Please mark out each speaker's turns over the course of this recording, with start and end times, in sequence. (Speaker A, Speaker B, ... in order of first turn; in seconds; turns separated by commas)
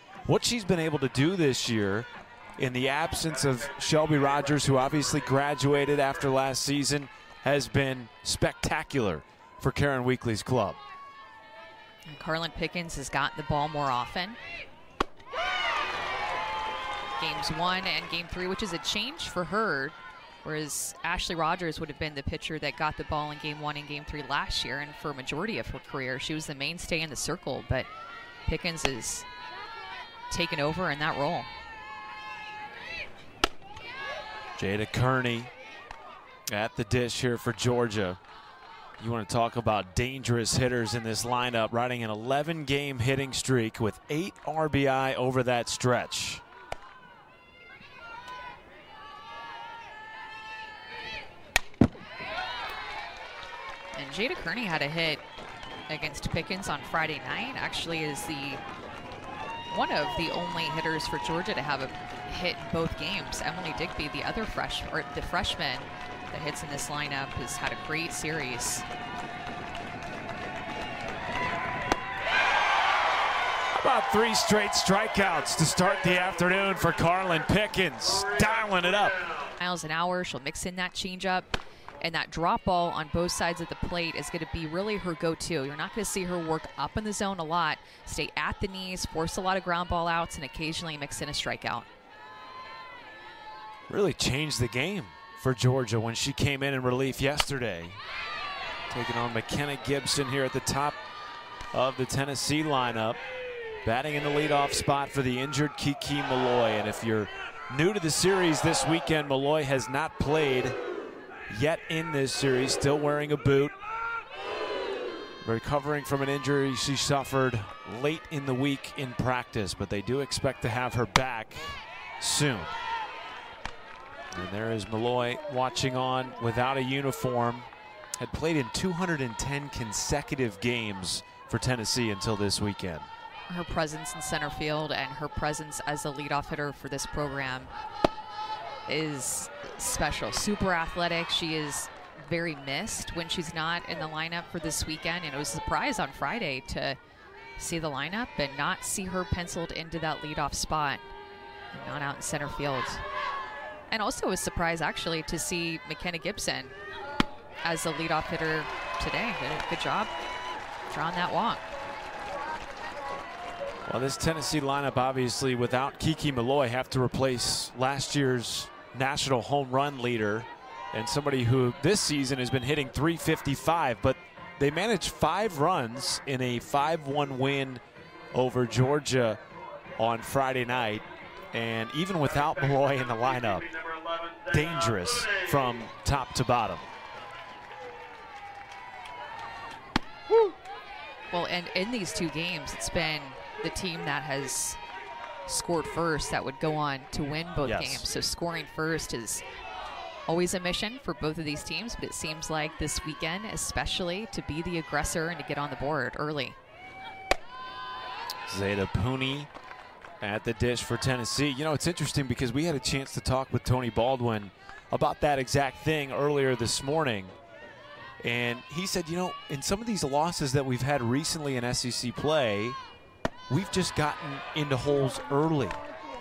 Speaker A: 0.2-10.8, Speaker B: 12.1-14.4, Speaker B: 17.2-27.9, Speaker B: 28.5-29.3, Speaker B: 30.3-31.5, Speaker A: 34.6-35.5, Speaker A: 36.5-38.2, Speaker A: 39.0-46.4, Speaker B: 54.0-55.2, Speaker B: 55.9-58.6, Speaker B: 59.7-68.9, Speaker A: 73.7-79.3, Speaker B: 79.6-91.9, Speaker A: 93.9-98.0, Speaker A: 98.9-101.0, Speaker A: 101.7-103.2, Speaker A: 103.8-110.8, Speaker A: 111.5-113.8, Speaker A: 115.4-122.7, Speaker A: 124.3-133.1, Speaker B: 133.5-137.7, Speaker B: 138.9-147.0, Speaker B: 147.6-151.1, Speaker B: 151.7-153.0, Speaker B: 153.9-156.7, Speaker B: 157.6-160.1, Speaker B: 160.9-161.7, Speaker A: 163.9-177.8, Speaker A: 178.3-179.4, Speaker A: 180.0-183.7, Speaker A: 184.5-186.9, Speaker B: 191.3-194.8, Speaker B: 195.5-199.4, Speaker A: 197.6-198.1, Speaker B: 200.3-206.6, Speaker A: 208.5-209.5, Speaker A: 210.2-217.3, Speaker A: 218.2-222.8, Speaker A: 223.5-225.8